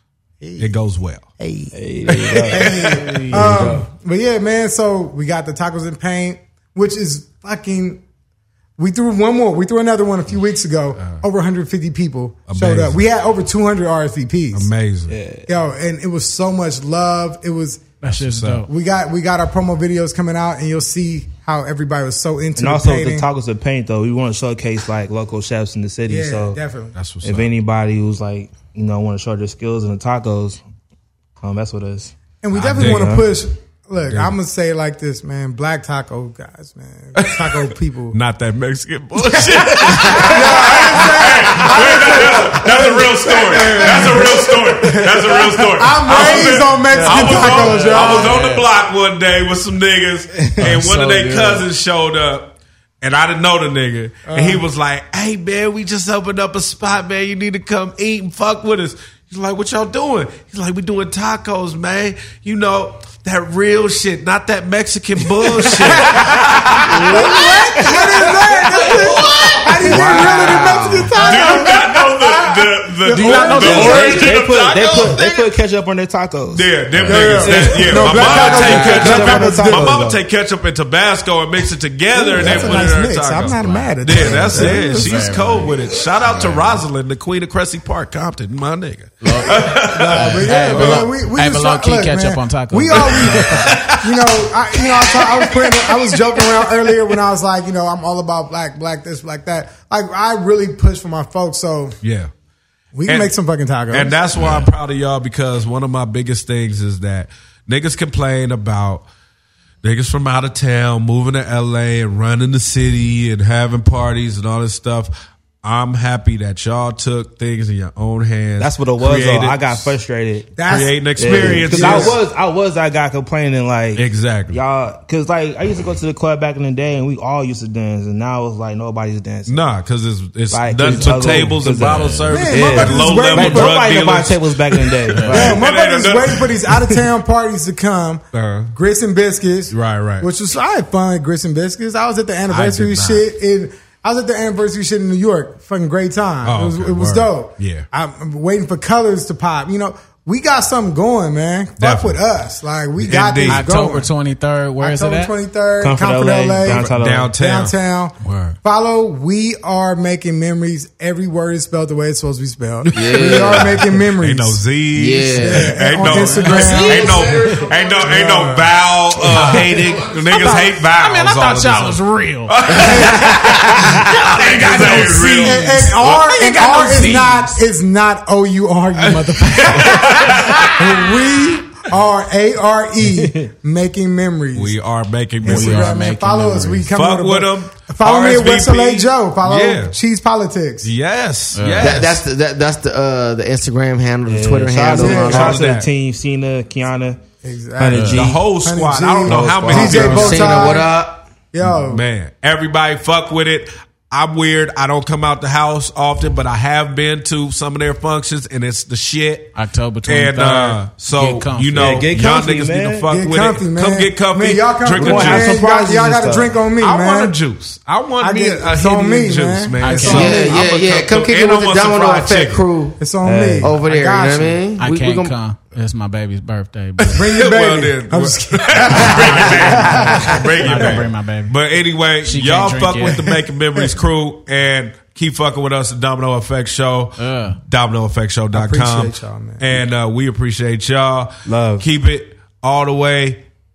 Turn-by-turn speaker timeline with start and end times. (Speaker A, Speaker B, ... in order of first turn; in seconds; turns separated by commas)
Speaker A: 0.4-0.8, Speaker B: 0.6-1.3, Speaker A: 1.4-1.8, Speaker C: 1.7-3.9, Speaker B: 2.1-3.0, Speaker A: 2.4-8.0, Speaker D: 2.8-3.7, Speaker A: 8.8-14.7, Speaker B: 12.5-13.0, Speaker B: 14.5-15.2, Speaker C: 15.1-15.5, Speaker A: 15.5-18.0, Speaker D: 18.0-18.7, Speaker B: 18.1-18.6, Speaker A: 18.6-23.3, Speaker C: 22.6-26.6, Speaker A: 26.1-27.0, Speaker B: 26.9-27.5, Speaker C: 27.2-30.6, Speaker C: 31.4-32.1, Speaker A: 32.4-38.2, Speaker B: 32.5-33.2, Speaker C: 32.7-33.2, Speaker B: 37.2-75.5, Speaker D: 40.0-40.4, Speaker A: 40.1-48.5, Speaker C: 46.9-47.2, Speaker D: 47.1-48.7, Speaker D: 50.6-51.7, Speaker A: 54.3-54.7, Speaker A: 65.7-66.3, Speaker C: 66.1-69.0, Speaker A: 67.1-74.3, Speaker E: 69.8-71.2, Speaker D: 71.3-71.7, Speaker D: 73.1-74.3, Speaker C: 73.4-80.2, Speaker B: 76.5-91.1, Speaker A: 77.0-80.1, Speaker D: 78.3-79.2, Speaker A: 82.2-85.1, Speaker C: 82.3-82.7, Speaker D: 82.4-82.9, Speaker D: 83.5-86.8, Speaker D: 89.2-93.8, Speaker A: 89.5-102.0, Speaker B: 93.0-97.0, Speaker B: 102.0-102.3, Speaker A: 102.9-104.2, Speaker B: 103.9-109.0, Speaker D: 104.3-104.7, Speaker B: 109.8-119.9, Speaker C: 118.6-120.6, Speaker A: 120.5-122.2, Speaker B: 120.6-122.2, Speaker C: 121.1-129.6, Speaker B: 124.0-124.6, Speaker B: 129.5-136.5, Speaker C: 130.5-135.6, Speaker D: 131.3-132.3, Speaker A: 132.3-133.9, Speaker D: 135.1-135.6, Speaker A: 135.3-154.1, Speaker B: 138.3-138.8, Speaker B: 139.7-140.3, Speaker B: 142.5-143.2, Speaker B: 146.4-147.9, Speaker B: 151.8-152.2, Speaker B: 153.0-153.7, Speaker D: 153.5-155.3, Speaker A: 154.8-164.6, Speaker C: 155.8-157.3, Speaker B: 156.6-157.7, Speaker D: 158.2-158.6, Speaker B: 162.9-176.2, Speaker E: 162.9-163.8, Speaker E: 164.9-165.8, Speaker A: 165.4-168.8, Speaker D: 166.0-167.7, Speaker D: 169.2-177.6, Speaker E: 172.7-173.6, Speaker A: 172.8-173.2, Speaker A: 174.7-184.8, Speaker B: 179.0-180.8, Speaker D: 179.8-180.8, Speaker C: 183.1-183.5, Speaker B: 184.6-186.0, Speaker A: 185.4-190.9, Speaker D: 185.4-186.9, Speaker B: 186.9-189.9, Speaker B: 190.8-192.2, Speaker D: 191.5-192.0, Speaker E: 191.8-195.6, Speaker C: 194.2-197.2, Speaker A: 194.9-195.6, Speaker B: 195.1-195.9, Speaker A: 197.4-200.9, Speaker C: 197.8-198.5, Speaker D: 197.9-198.3, Speaker B: 198.1-200.8, Speaker C: 199.2-200.3, Speaker D: 199.7-200.3, Speaker E: 200.0-201.3, Speaker A: 201.5-202.0, Speaker B: 201.7-209.6, Speaker D: 209.6-212.1, Speaker B: 210.1-215.6, Speaker C: 211.8-213.1, Speaker A: 213.1-217.4, Speaker C: 214.9-216.6, Speaker B: 216.8-222.6, Speaker A: 218.2-220.6, Speaker D: 219.8-220.5, Speaker E: 220.0-223.0, Speaker A: 223.0-224.7, Speaker C: 223.2-223.8, Speaker E: 223.6-225.3, Speaker D: 224.8-227.4, Speaker B: 227.0-243.4, Speaker A: 227.1-231.1, Speaker D: 228.8-231.6, Speaker D: 232.2-233.4, Speaker D: 237.2-237.6, Speaker A: 238.5-239.8, Speaker C: 241.5-241.9